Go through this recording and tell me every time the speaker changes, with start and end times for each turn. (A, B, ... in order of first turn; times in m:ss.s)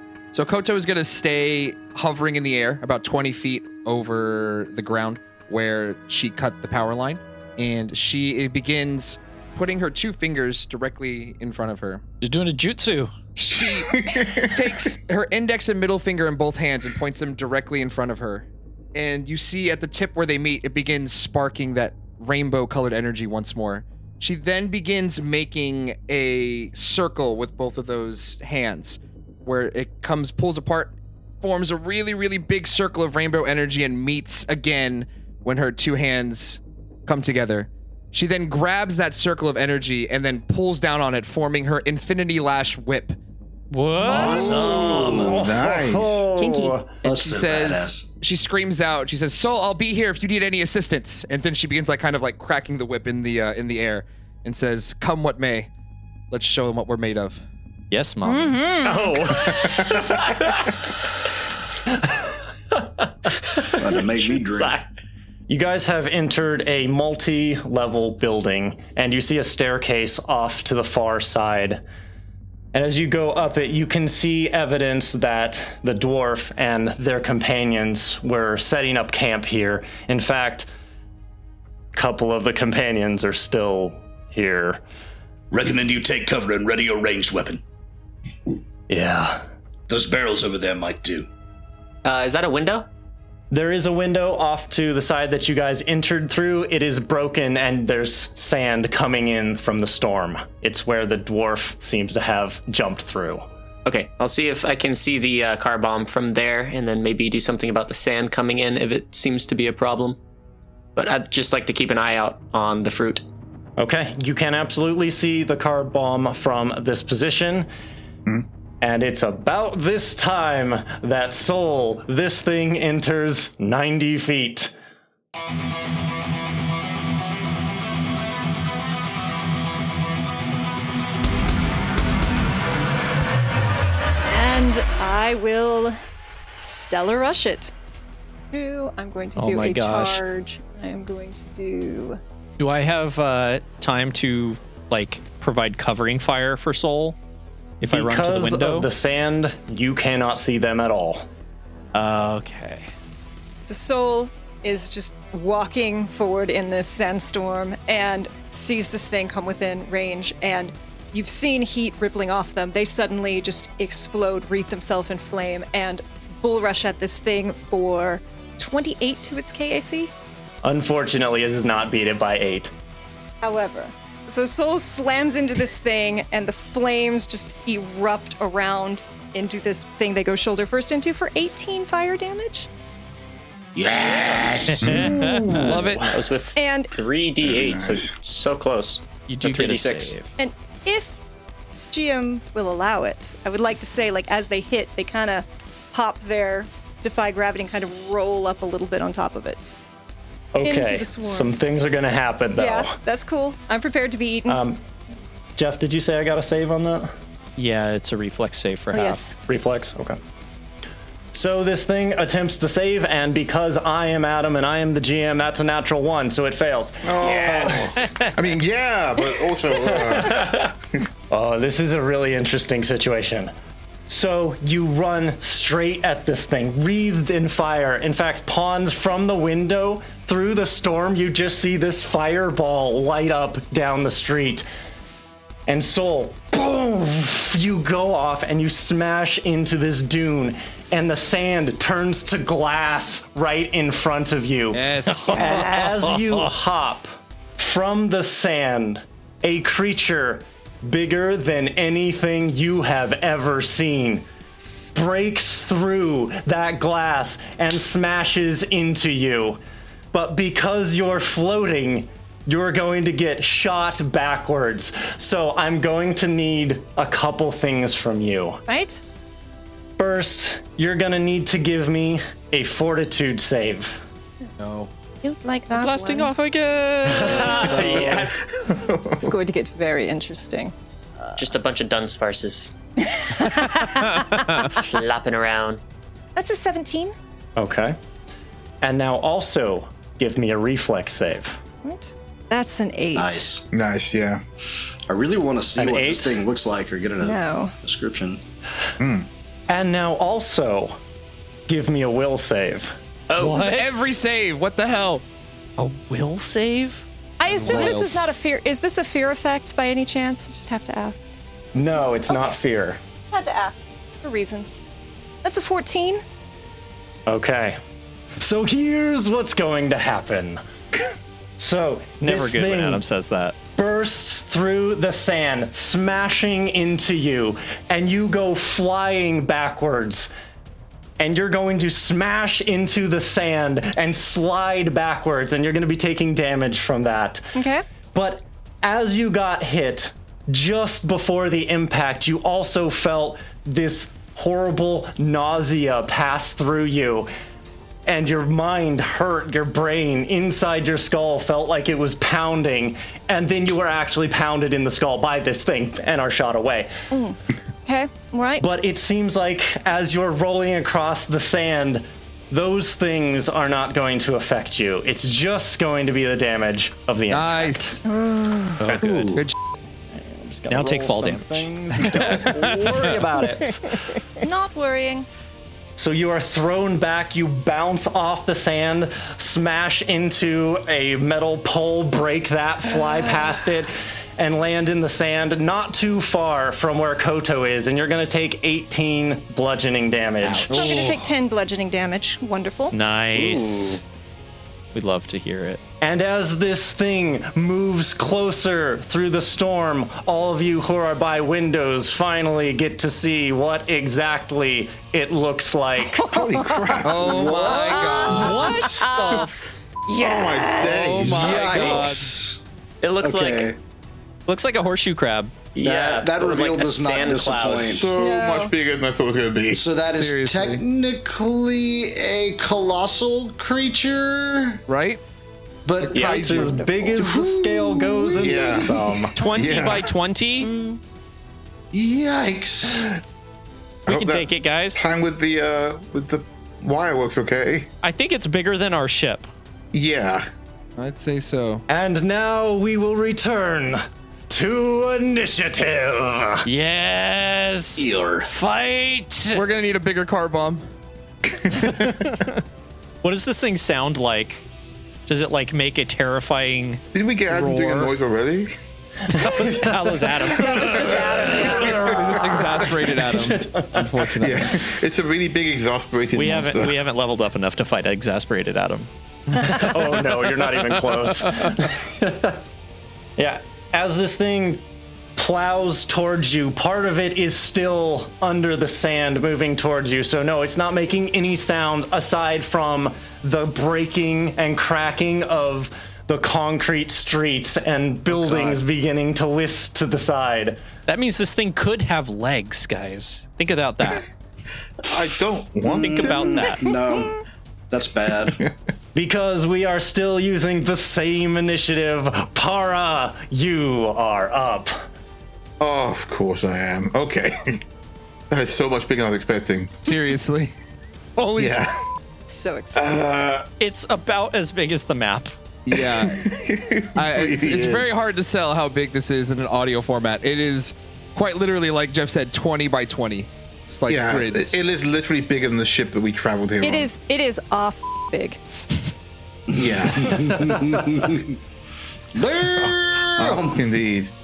0:00.3-0:12.0 A
0:12.2-0:13.1 B
0:13.4-0:43.2 A
0:13.5-0:14.9 C
0:43.7-0:44.8 B
0:44.0-0:46.9 D
0:44.1-0:46.3 C
0:44.1-0:45.3 E
0:47.0-0:48.1 E
0:47.0-0:55.7 A
0:56.3-0:57.4 A
0:57.9-0:58.7 B
0:58.2-0:59.2 F
0:58.8-1:00.3 G
1:03.7-1:04.8 E
1:03.8-1:04.8 G
1:05.5-1:11.8 D
1:12.7-1:20.7 D
1:21.9-1:24.8 D
1:25.5-1:27.6 E
1:28.9-1:29.4 D
1:29.9-1:31.3 E
1:32.0-1:32.9 G
1:33.5-1:43.4 D
1:43.8-1:50.2 G
1:51.0-1:53.2 G
1:53.8-1:57.7 D
1:58.8-2:04.7 D
2:14.3-2:16.0 F
2:16.6-2:17.7 F
2:18.5-2:22.2 F
2:19.4-2:20.2 B
2:22.6-2:27.2 B
2:27.8-2:28.9 B
2:27.9-2:31.2 D
2:31.9-2:32.9 B
2:33.7-2:50.1 F
2:50.6-2:52.7 D
2:53.4-3:02.7 F
3:03.7-3:05.0 E
3:04.6-3:05.8 B
3:04.8-3:05.4 C
3:05.6-3:06.2 A
3:05.7-3:10.1 G
3:06.5-3:06.9 F
3:07.4-3:08.1 C
3:09.3-3:10.3 B
3:10.4-3:11.2 F
3:11.9-3:19.6 F
3:20.5-3:23.0 D
3:20.6-3:21.5 F
3:22.6-3:24.6 F
3:24.5-3:24.8 D
3:25.6-3:27.1 D
3:27.6-3:29.2 B
3:28.9-3:29.4 F
3:29.4-3:30.2 D
3:31.3-3:38.1 D
3:37.0-3:40.7 C
3:39.9-3:40.7 D
3:41.3-3:43.5 D
3:44.1-3:54.6 D
3:55.7-4:14.2 D
4:04.7-4:05.5 A
4:05.1-4:06.3 B
4:14.6-4:14.9 F
4:14.9-4:19.6 D
4:20.1-4:28.6 D
4:28.7-4:29.0 F
4:30.0-4:34.0 D
4:34.6-4:34.9 A
4:35.2-4:36.3 F
4:35.7-4:38.1 B
4:37.2-4:38.4 D
4:37.8-4:38.2 F
4:38.1-4:39.3 C
4:39.2-4:40.7 F
4:41.4-4:42.7 G
4:43.1-4:44.2 F
4:44.6-4:45.8 G
4:46.4-4:47.1 F
4:47.6-4:48.0 D
4:48.8-4:51.6 D
4:51.8-4:53.5 F
4:53.1-4:53.6 E
4:53.7-4:54.4 C
4:55.1-4:58.4 E
4:55.8-4:56.4 D
4:57.2-4:57.7 F
4:59.0-4:59.3 C
4:59.7-5:01.0 D
5:01.7-5:02.9 D
5:03.3-5:03.7 G
5:03.4-5:03.8 B
5:03.5-5:05.2 A
5:05.8-5:07.0 B
5:07.4-5:11.3 F
5:07.5-5:08.3 A
5:07.7-5:08.0 B
5:11.7-5:13.0 D
5:12.3-5:12.5 F
5:13.3-5:14.8 F
5:15.4-5:16.2 F
5:17.3-5:17.8 D
5:18.4-5:20.6 D
5:21.6-5:23.0 D
5:22.2-5:23.6 B
5:23.8-5:30.3 D
5:31.2-5:37.5 D
5:37.5-5:37.8 F
5:38.1-5:47.3 D
5:48.0-5:56.9 D
5:57.1-5:58.7 F
5:58.6-6:08.0 D
6:07.3-6:08.0 A
6:08.1-6:08.8 F
6:08.8-6:09.4 B
6:09.0-6:09.6 A
6:10.1-6:14.0 D
6:10.7-6:12.6 B
6:12.1-6:12.6 A
6:14.4-6:15.2 F
6:16.0-6:30.7 D
6:30.4-6:31.1 B
6:30.7-6:32.9 F
6:30.7-6:31.2 A
6:32.9-6:34.0 B
6:33.4-6:33.9 G
6:34.9-6:35.8 B
6:36.0-6:46.3 D
6:46.2-6:47.8 C
6:46.2-6:47.0 F
6:47.0-6:49.0 A
6:47.2-6:48.3 E
6:48.1-6:49.5 B
6:48.2-6:49.5 F
6:50.1-6:51.1 F
6:50.1-6:51.7 C
6:50.8-6:52.4 A
6:51.1-6:52.6 E
6:51.7-6:52.0 B
6:53.0-6:53.7 B
6:53.2-6:53.8 E
6:54.5-6:58.0 B
6:55.8-6:56.2 D
6:55.8-6:58.1 E
6:57.8-6:59.8 C
6:58.1-6:58.7 F
6:59.7-7:04.8 E
7:00.1-7:00.8 A
7:04.9-7:05.2 A
7:05.8-7:09.3 E
7:06.0-7:06.7 G
7:06.0-7:06.8 A
7:06.1-7:09.3 D
7:08.4-7:09.0 C
7:09.3-7:10.7 B
7:09.5-7:10.1 C
7:11.9-7:13.2 E
7:14.0-7:17.9 C
7:14.1-7:15.1 B
7:18.0-7:19.5 B
7:19.9-7:20.5 C
7:21.0-7:21.8 A
7:21.9-7:26.7 D
7:26.6-7:29.6 B
7:28.0-7:28.5 E
7:29.5-7:30.8 A
7:31.6-7:32.2 C
7:31.8-7:32.6 B
7:33.2-7:34.6 B
7:35.3-7:38.1 B
7:37.1-7:38.7 C
7:39.3-7:42.0 B
7:40.5-7:42.2 F
7:40.6-7:44.1 D
7:41.5-7:44.8 A
7:41.6-7:42.5 C
7:44.4-7:47.0 C
7:46.3-7:50.0 B
7:49.6-7:52.6 D
7:53.4-7:54.8 D
7:55.4-8:10.8 D
8:11.0-8:14.2 B
8:15.0-8:16.9 C
8:15.8-8:17.4 E
8:16.0-8:16.9 B
8:17.9-8:18.6 E
8:19.1-8:25.0 D
8:25.8-8:27.8 C
8:28.5-8:30.0 C
8:30.0-8:30.7 A
8:31.4-8:31.9 A
8:31.6-8:31.9 C
8:32.5-8:33.1 F
8:32.9-8:33.7 C
8:33.8-8:35.5 B
8:35.8-8:36.4 A
8:35.9-8:38.1 C
8:37.2-8:44.8 A
8:44.1-8:47.1 C
8:46.8-8:48.6 F
8:49.7-8:51.6 E
8:49.7-8:50.8 C
8:52.3-8:53.8 E
8:52.7-8:54.3 C